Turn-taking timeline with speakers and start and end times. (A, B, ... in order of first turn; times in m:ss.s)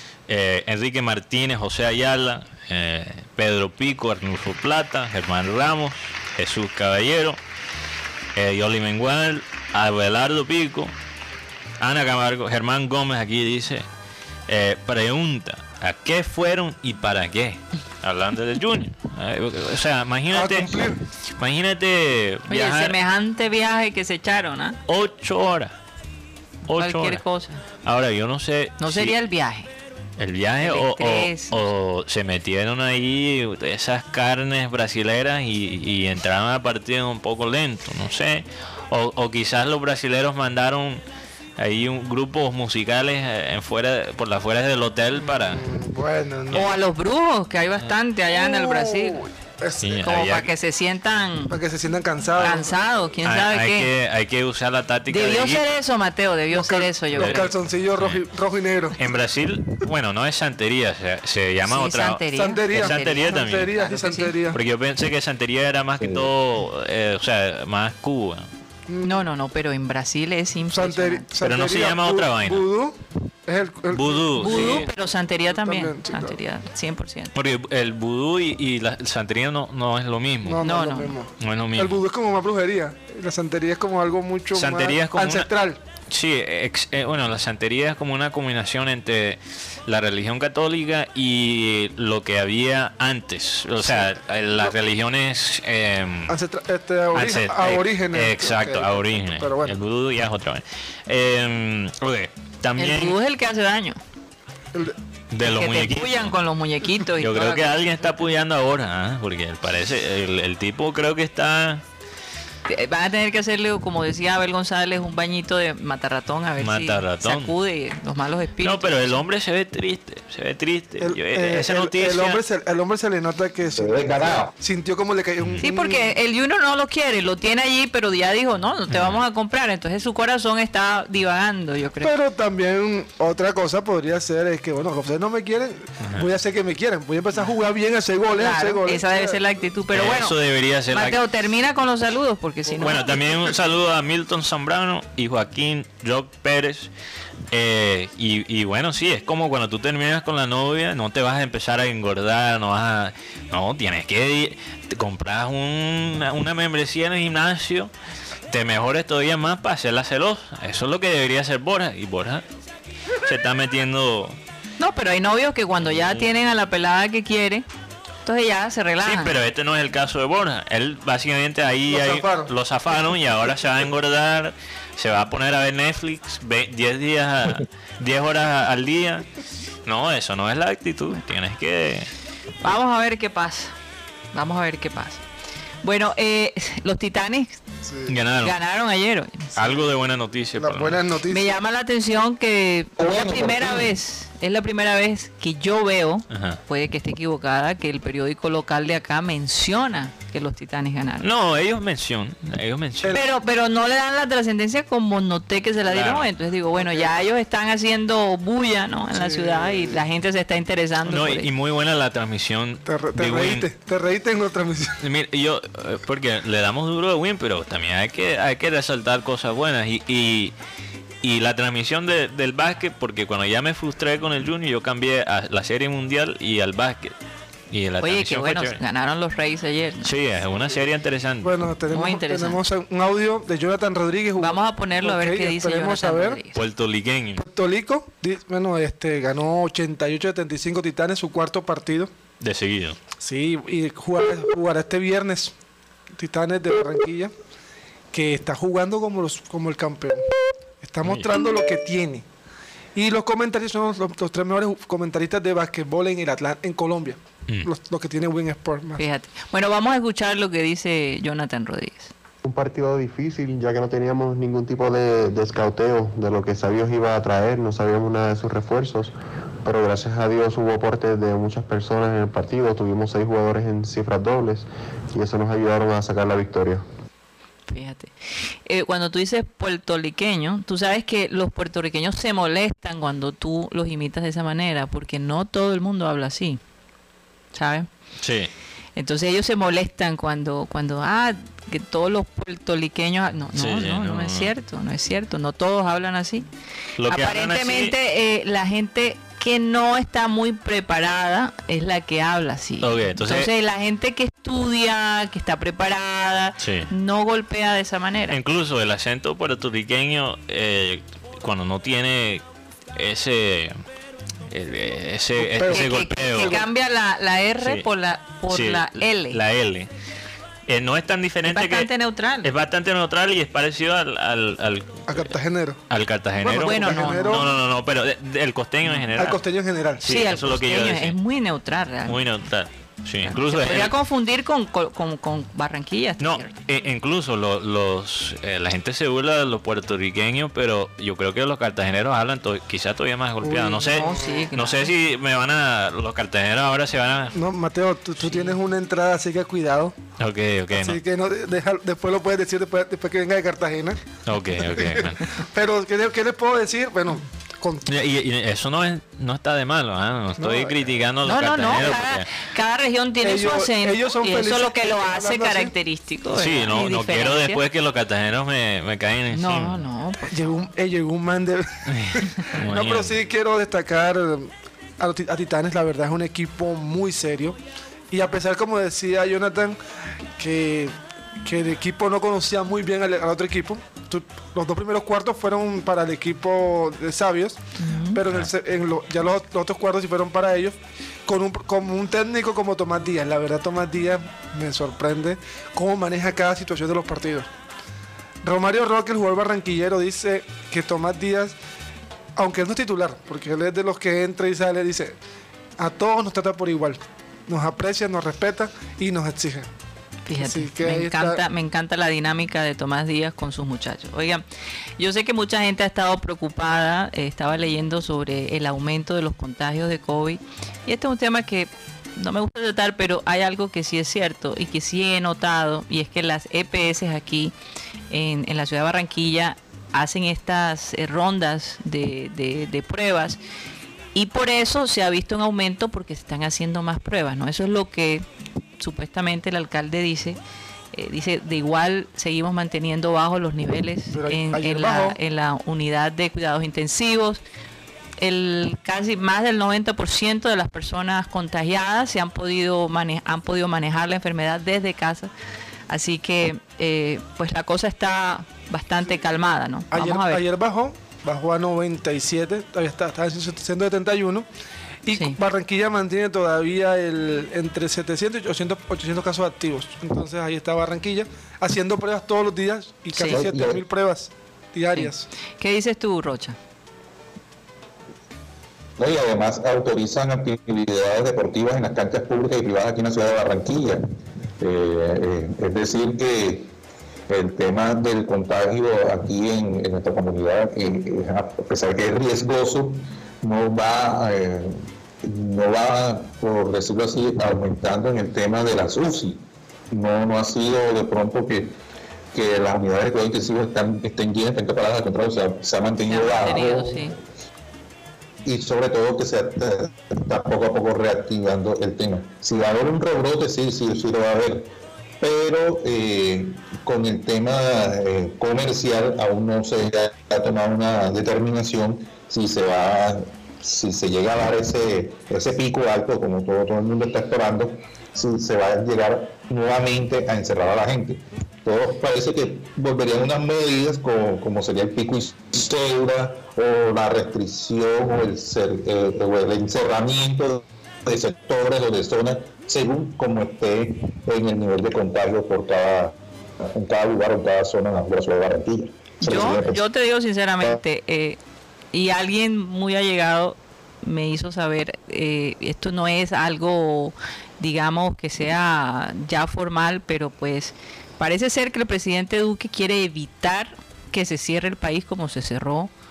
0:00.3-0:07.4 A
0:08.4-0:10.9 A
0:11.8-0:13.8 A
0:14.5-0:23.0 A
0:20.3-0:21.0 B
0:22.5-0:24.8 C
0:24.9-0:25.7 A
0:26.7-0:27.2 A
0:26.8-0:27.6 C
0:27.8-0:29.1 A
0:28.8-0:29.7 C
0:30.2-0:41.0 A
0:30.6-0:31.6 C
0:41.6-0:45.6 A
0:45.2-0:46.7 B
0:46.5-0:49.2 C
0:48.3-0:50.1 B
0:49.8-0:50.5 A
0:50.0-0:51.6 C
0:51.5-0:52.7 B
0:52.4-0:53.9 C
0:53.2-0:55.6 A
0:55.1-0:57.5 C
0:56.5-0:59.0 B
0:57.2-0:57.4 A
0:59.0-1:03.7 A
1:01.6-1:04.4 C
1:02.3-1:04.6 B
1:04.5-1:08.5 A
1:06.0-1:06.3 D
1:08.9-1:09.2 B
1:09.0-1:11.3 C
1:10.7-1:14.9 B
1:11.4-1:12.7 A
1:13.9-1:14.9 A
1:14.4-1:17.3 C
1:15.5-1:16.4 B
1:17.4-1:20.6 A
1:20.4-1:25.8 B
1:20.6-1:21.2 C
1:21.4-1:22.0 A
1:24.5-1:25.5 A
1:26.1-1:36.4 A
1:33.8-1:34.7 B
1:36.3-1:39.8 B
1:37.1-1:43.2 A
1:42.8-1:44.0 C
1:45.3-1:46.3 A
1:45.4-1:47.8 C
1:47.2-1:51.8 A
1:52.7-1:59.2 C
1:56.6-1:57.6 A
1:58.6-2:02.4 A
2:01.0-2:06.1 B
2:03.8-2:04.5 D
2:05.6-2:12.1 C
2:08.9-2:09.2 A
2:12.0-2:19.4 B
2:18.3-2:20.4 C
2:19.9-2:21.2 A
2:20.9-2:23.1 C
2:22.8-2:26.9 A
2:27.5-2:37.9 A
2:38.5-2:42.4 A
2:43.2-2:44.4 A
2:44.8-2:47.7 C
2:45.8-2:46.3 A
2:48.2-2:49.4 C
2:49.0-2:59.3 A
2:51.9-2:52.5 B
2:59.9-3:02.1 A
3:02.6-3:03.7 C
3:04.3-3:05.2 C
3:05.8-3:07.6 C
3:07.8-3:08.1 B
3:08.1-3:08.6 A
3:08.4-3:09.5 C
3:09.6-3:11.0 A
3:10.6-3:11.5 B
3:11.3-3:21.3 C
3:13.0-3:13.9 D
3:16.3-3:16.6 A
3:21.2-3:23.2 A
3:23.1-3:31.5 C
3:25.9-3:26.3 A
3:26.8-3:27.2 B
3:29.1-3:30.0 B
3:31.0-3:33.7 A
3:32.9-3:35.0 B
3:35.0-3:40.5 A
3:41.2-3:47.1 A
3:47.7-3:48.8 A
3:48.0-3:50.1 C
3:50.0-3:51.5 A
3:51.4-3:56.4 B
3:51.9-3:52.6 C
3:54.4-3:56.6 C
3:56.6-3:57.4 A
3:57.4-4:02.1 B
4:02.4-4:03.0 A
4:03.2-4:05.5 B
4:06.2-4:07.3 B
4:08.1-4:10.3 B
4:10.8-4:12.2 B
4:11.0-4:11.3 A
4:13.0-4:19.0 B
4:19.0-4:22.1 C
4:22.4-4:36.8 E
4:37.7-4:46.6 C
4:47.5-4:47.9 C
4:48.2-4:48.5 A
4:49.0-4:56.5 C
4:53.6-4:54.5 A
4:57.0-4:57.9 A
4:57.1-5:08.4 C
5:02.8-5:03.5 A
5:06.6-5:06.9 A
5:08.3-5:12.4 A
5:13.0-5:13.8 A
5:14.5-5:16.6 A
5:15.4-5:16.6 B
5:15.6-5:19.4 C
5:17.6-5:17.9 A
5:18.5-5:19.9 A
5:20.7-5:21.9 A
5:21.5-5:22.5 C
5:22.4-5:25.3 A
5:25.1-5:25.8 B
5:25.9-5:29.4 A
5:26.4-5:27.5 B
5:26.5-5:27.5 C
5:29.2-5:30.0 B
5:30.0-5:31.2 A
5:30.0-5:32.2 C
5:32.0-5:33.9 A
5:33.3-5:36.5 C
5:36.2-5:47.4 A
5:43.4-5:44.4 B
5:44.0-5:44.9 C
5:47.4-5:50.0 B
5:48.2-5:48.6 C
5:50.2-5:51.0 A
5:50.7-5:54.0 B
5:54.3-5:55.3 A
5:54.6-5:57.9 B
5:57.9-6:02.3 A
6:00.4-6:00.8 B
6:01.2-6:07.6 C
6:03.2-6:05.7 B
6:06.3-6:09.8 A
6:09.3-6:10.4 C
6:10.3-6:17.6 B
6:11.9-6:13.2 A
6:18.1-6:19.8 B
6:20.4-6:30.8 B
6:27.8-6:28.2 C
6:31.3-6:37.5 B
6:38.4-6:41.6 B
6:42.4-6:45.2 B
6:45.8-6:49.7 B
6:50.3-6:54.4 C
6:50.4-6:51.4 B
6:55.0-7:07.6 C
7:08.1-7:13.4 C
7:14.1-7:18.2 C
7:18.8-7:20.4 C
7:20.9-7:27.4 C
7:24.1-7:25.2 B
7:28.2-7:35.3 C
7:35.9-7:40.4 C
7:39.9-7:44.5 B
7:45.0-7:55.3 B
7:53.1-7:53.4 C
7:53.3-7:53.8 D
7:55.0-7:56.6 C
7:59.0-8:04.0 D
8:04.6-8:06.7 D
8:07.3-8:19.4 D
8:19.9-8:21.8 D
8:22.3-8:27.2 D
8:26.1-8:27.2 C
8:28.4-9:09.8 D
9:09.2-9:11.4 C
9:11.9-9:25.9 C